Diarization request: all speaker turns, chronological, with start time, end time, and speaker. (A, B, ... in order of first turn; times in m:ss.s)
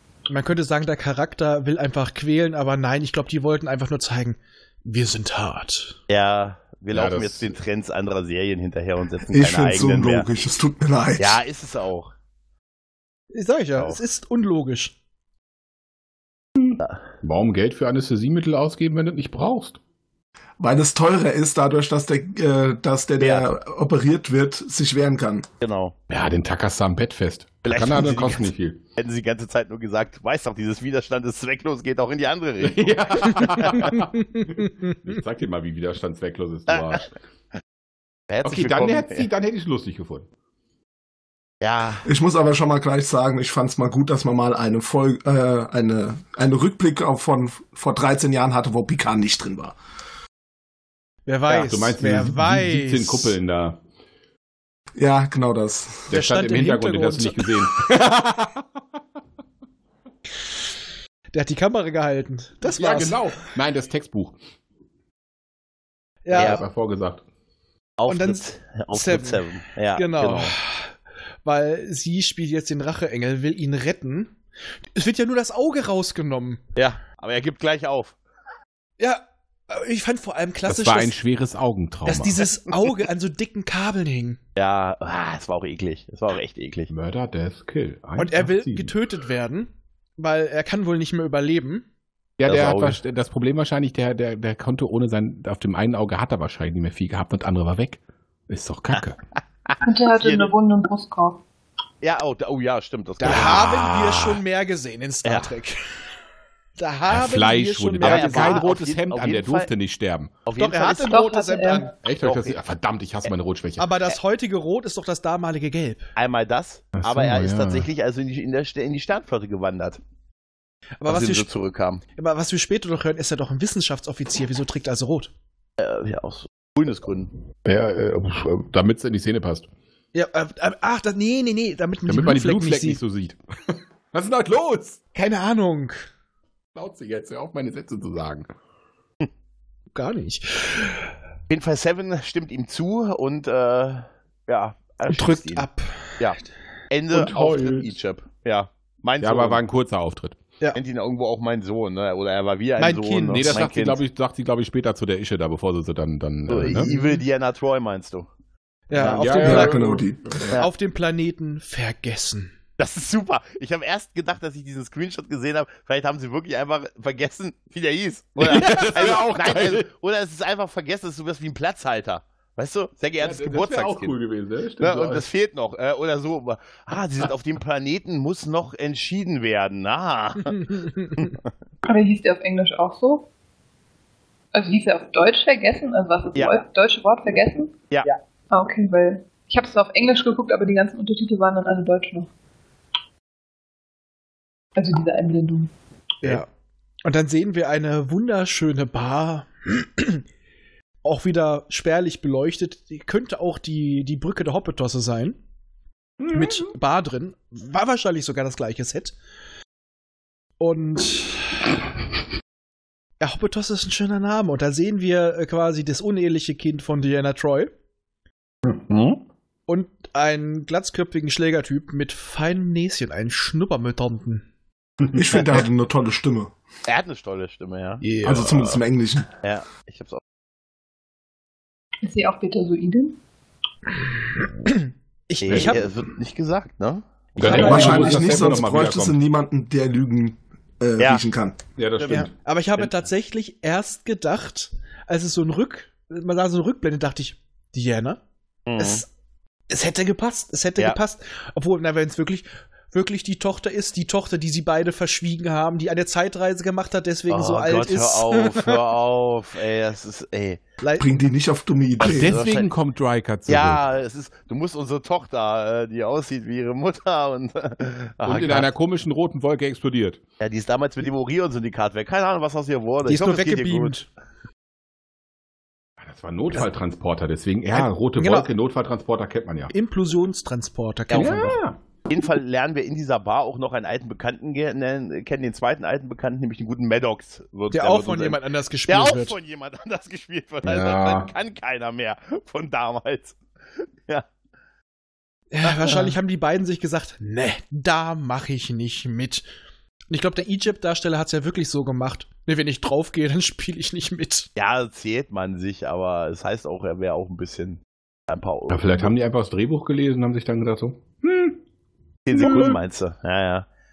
0:00.3-0:06.0 A
0:06.1-0:10.3 B
0:06.9-0:07.5 C
0:09.3-0:11.4 D
0:11.2-0:12.1 B
0:13.3-0:15.0 A
0:16.6-0:19.8 C
0:20.6-0:25.5 D
0:23.2-0:23.5 B
0:25.6-0:26.0 B
0:26.1-0:28.8 C
0:27.6-0:33.6 B
0:32.6-0:37.1 C
0:33.8-0:34.6 A
0:36.7-0:37.0 B
0:38.3-0:39.3 B
0:38.4-0:40.3 C
0:41.6-0:42.0 B
0:42.0-0:49.8 D
0:51.3-0:53.4 A
0:51.5-0:53.8 C
0:55.0-0:56.2 D
0:56.1-0:58.7 C
0:56.1-0:57.5 A
1:01.3-1:03.2 A
1:02.8-1:04.4 C
1:06.2-1:06.6 A
1:06.3-1:07.2 C
1:06.4-1:06.7 B
1:08.0-1:10.5 B
1:08.1-1:10.9 A
1:11.4-1:14.4 A
1:15.0-1:16.6 A
1:16.8-1:18.2 B
1:19.0-1:21.2 A
1:20.7-1:22.4 C
1:22.1-1:24.4 A
1:24.6-1:26.9 B
1:26.9-1:28.9 C
1:28.2-1:31.8 A
1:32.4-1:39.2 C
1:32.5-1:33.0 B
1:39.7-1:40.5 B
1:39.8-1:41.4 E
1:42.0-1:43.7 B
1:43.2-1:45.8 A
1:43.2-1:44.4 C
1:45.2-1:45.5 B
1:46.8-1:48.6 A
1:47.1-1:50.3 C
1:48.0-1:49.7 B
1:50.5-1:51.2 B
1:50.6-1:51.9 A
1:51.0-1:51.9 E
1:52.0-1:53.9 C
1:52.2-1:52.6 B
1:53.8-1:56.1 A
1:56.2-2:00.0 B
1:57.0-1:57.9 C
2:01.0-2:01.5 A
2:01.1-2:02.0 B
2:02.2-2:05.3 A
2:05.8-2:07.3 B
2:07.6-2:09.7 C
2:10.1-2:13.0 A
2:12.1-2:15.0 C
2:15.1-2:16.1 A
2:16.8-2:18.5 C
2:19.9-2:21.1 A
2:21.5-2:25.7 B
2:25.1-2:26.2 A
2:26.9-2:29.6 B
2:27.1-2:27.9 C
2:29.2-2:30.4 C
2:30.7-2:34.0 B
2:32.8-2:33.6 A
2:33.3-2:36.9 C
2:36.5-2:38.3 B
2:36.8-2:37.2 A
2:38.9-2:40.0 A
2:38.9-2:40.6 C
2:39.4-2:40.4 D
2:40.6-2:42.5 A
2:42.8-2:54.1 B
2:48.4-2:49.8 C
2:53.2-2:55.2 C
2:54.8-3:01.4 B
3:00.5-3:01.3 A
3:01.8-3:03.3 E
3:04.5-3:12.3 E
3:06.4-3:06.6 B
3:14.8-3:15.7 E
3:16.2-3:16.5 A
3:17.0-3:20.2 A
3:21.0-3:25.4 A
3:26.2-3:26.6 C
3:26.3-3:29.2 A
3:30.6-3:31.7 A
3:33.2-3:37.7 A
3:38.6-3:39.2 C
3:39.7-3:44.5 A
3:45.1-3:46.5 D
3:46.9-3:48.0 B
3:48.0-3:48.6 A
3:48.2-3:49.3 D
3:49.4-3:50.2 B
3:52.0-3:53.2 E
3:54.6-3:55.8 A
3:55.4-3:58.2 B
3:55.5-3:55.8 C
3:57.4-3:59.2 C
3:57.4-4:01.6 D
3:57.5-3:58.0 E
3:57.6-3:58.0 A
4:01.8-4:02.3 C
4:02.0-4:02.2 B
4:02.1-4:08.2 A
4:08.7-4:09.0 B
4:08.8-4:09.1 A
4:09.7-4:18.8 A
4:17.3-4:20.6 B
4:20.8-4:21.1 A
4:21.0-4:22.4 D
4:22.0-4:22.7 B
4:22.0-4:23.8 C
4:23.5-4:28.7 B
4:28.2-4:30.2 C
4:30.4-4:34.0 B
4:33.1-4:34.1 A
4:36.0-4:39.7 C
4:37.7-4:38.5 A
4:39.7-4:41.6 A
4:41.1-4:41.4 B
4:41.1-4:41.8 C
4:42.1-4:53.4 B
4:47.7-4:49.4 A
4:50.6-4:51.3 C
4:55.5-4:59.5 A
4:55.6-4:56.1 B
5:00.1-5:04.5 A
5:04.6-5:09.1 B
5:08.7-5:11.6 C
5:12.3-5:13.7 B
5:12.3-5:12.8 C